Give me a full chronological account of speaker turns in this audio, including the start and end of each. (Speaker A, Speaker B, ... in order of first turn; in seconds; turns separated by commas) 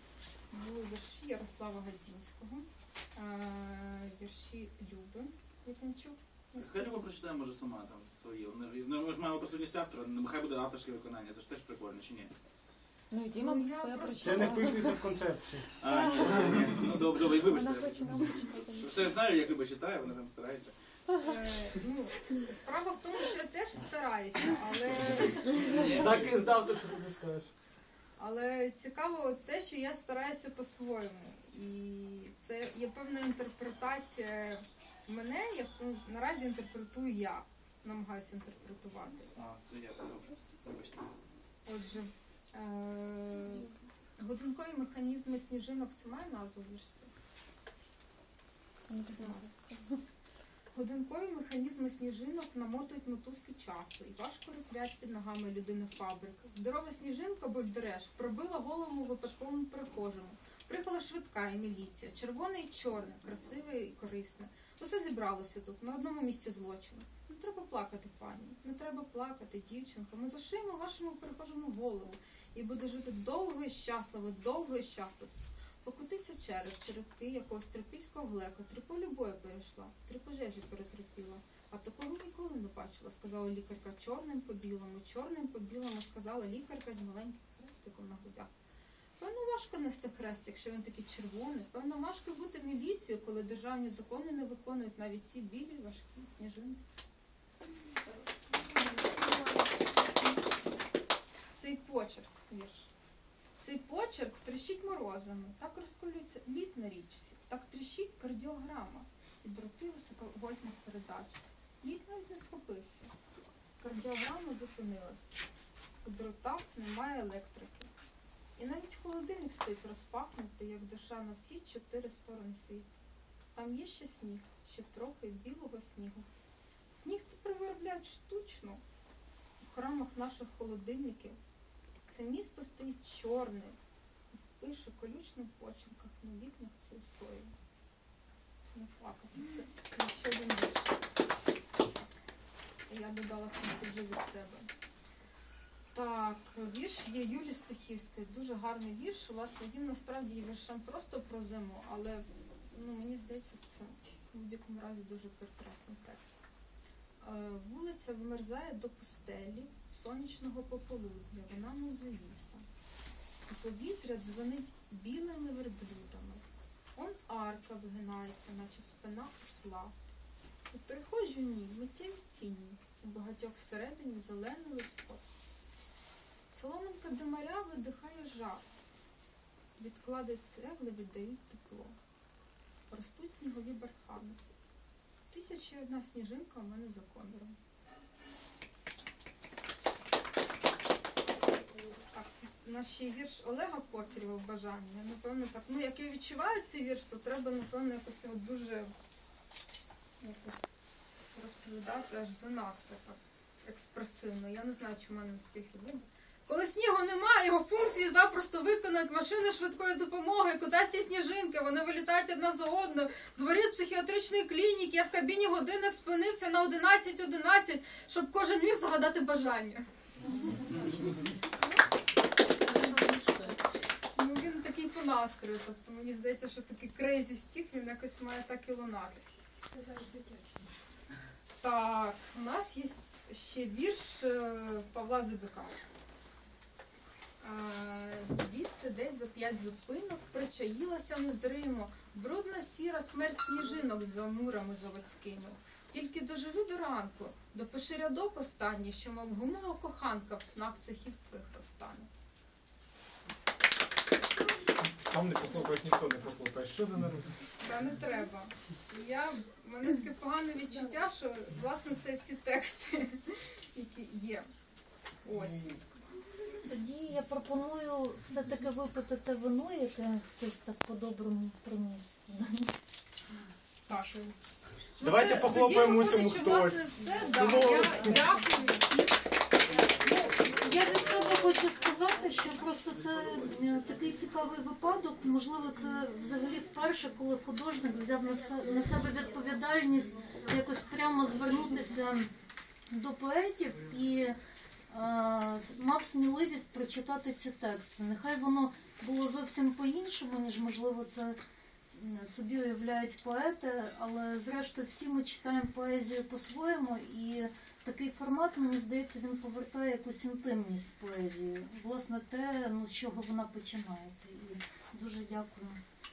Speaker A: 0.5-6.9, Speaker B: 6.5-12.3, Speaker C: 13.1-15.1, Speaker A: 13.3-14.8, Speaker D: 14.2-15.7, Speaker B: 15.8-20.7, Speaker C: 15.9-16.7, Speaker D: 16.4-16.7, Speaker C: 17.3-19.1, Speaker A: 21.2-25.9, Speaker B: 25.5-26.3, Speaker D: 25.9-27.5, Speaker A: 28.2-39.3, Speaker B: 39.4-41.1, Speaker A: 41.6-47.1, Speaker C: 48.9-50.0, Speaker A: 49.1-49.5, Speaker A: 50.7-88.5, Speaker A: 89.2-96.8, Speaker C: 98.8-99.7, Speaker A: 101.5-102.9, Speaker A: 103.6-113.1, Speaker A: 113.8-115.3, Speaker A: 116.0-117.9, Speaker A: 118.6-122.9, Speaker A: 123.5-126.3, Speaker A: 126.9-128.8, Speaker A: 129.6-131.4, Speaker A: 132.1-133.8, Speaker A: 134.5-137.5, Speaker A: 138.7-141.0, Speaker A: 142.9-144.7, Speaker A: 145.9-156.3, Speaker A: 157.2-162.6, Speaker A: 163.5-166.4, Speaker A: 166.9-169.9, Speaker A: 170.7-175.2, Speaker A: 176.5-178.6, Speaker A: 179.8-181.9, Speaker A: 182.9-184.4, Speaker A: 185.3-187.6, Speaker A: 191.6-198.9, Speaker A: 200.2-200.7, Speaker A: 201.3-219.8, Speaker C: 222.7-223.4, Speaker A: 224.1-229.5, Speaker A: 231.6-235.8, Speaker A: 237.4-252.1, Speaker D: 255.0-257.3, Speaker A: 257.6-264.5, Speaker A: 265.2-265.9, Speaker E: 266.6-272.7, Speaker A: 273.9-274.3, Speaker A: 275.0-279.2, Speaker D: 275.0-278.3, Speaker A: 280.0-280.4, Speaker E: 280.4-292.3, Speaker E: 292.9-294.4, Speaker E: 294.9-301.4, Speaker E: 301.9-315.8